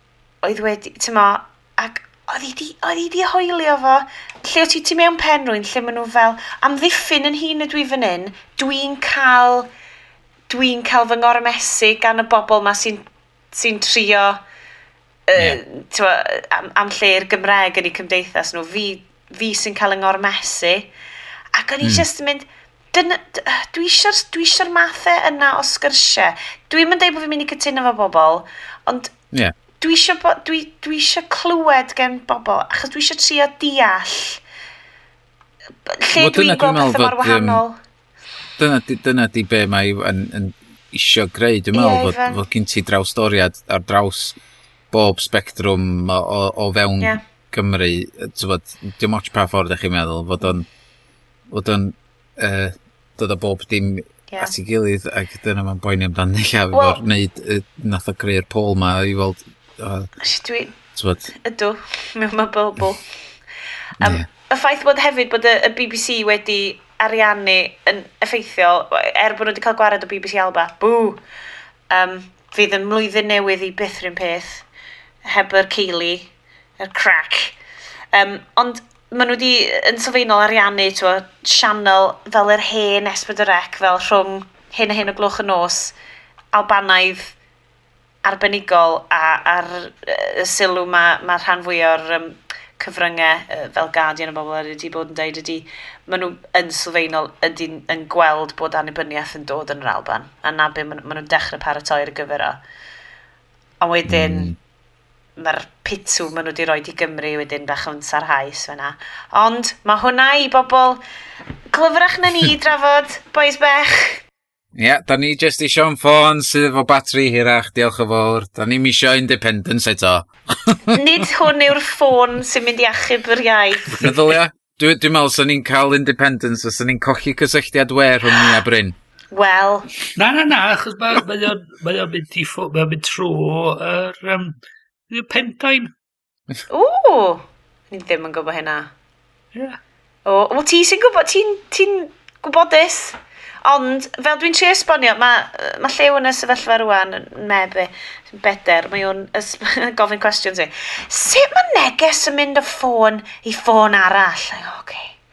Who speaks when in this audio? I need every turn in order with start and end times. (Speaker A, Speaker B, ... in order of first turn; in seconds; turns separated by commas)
Speaker A: 0.4-9.7, Speaker A: 10.5-14.4, Speaker A: 15.3-20.9, Speaker A: 21.5-29.1, Speaker A: 29.8-34.4, Speaker A: 35.9-37.8, Speaker B: 36.1-37.6, Speaker B: 38.6-44.4, Speaker A: 41.7-42.4, Speaker B: 44.9-50.7, Speaker B: 51.5-60.1, Speaker A: 56.7-57.0, Speaker A: 60.2-60.8, Speaker B: 60.9-61.3, Speaker A: 61.3-63.0, Speaker B: 64.0-64.3, Speaker A: 64.0-71.2, Speaker A: 71.9-74.7, Speaker A: 75.2-77.6, Speaker A: 78.1-85.9, Speaker A: 86.5-87.4, Speaker A: 88.2-102.6, Speaker A: 103.8-104.5, Speaker B: 104.1-104.5, Speaker A: 105.4-111.0, Speaker A: 111.7-114.2, Speaker B: 114.8-121.0, Speaker A: 120.9-124.0, Speaker C: 123.9-124.2, Speaker B: 124.0-129.0, Speaker A: 129.3-129.9, Speaker C: 130.2-134.6, Speaker C: 135.1-135.9, Speaker A: 136.7-138.9, Speaker C: 139.5-139.8, Speaker A: 140.2-155.2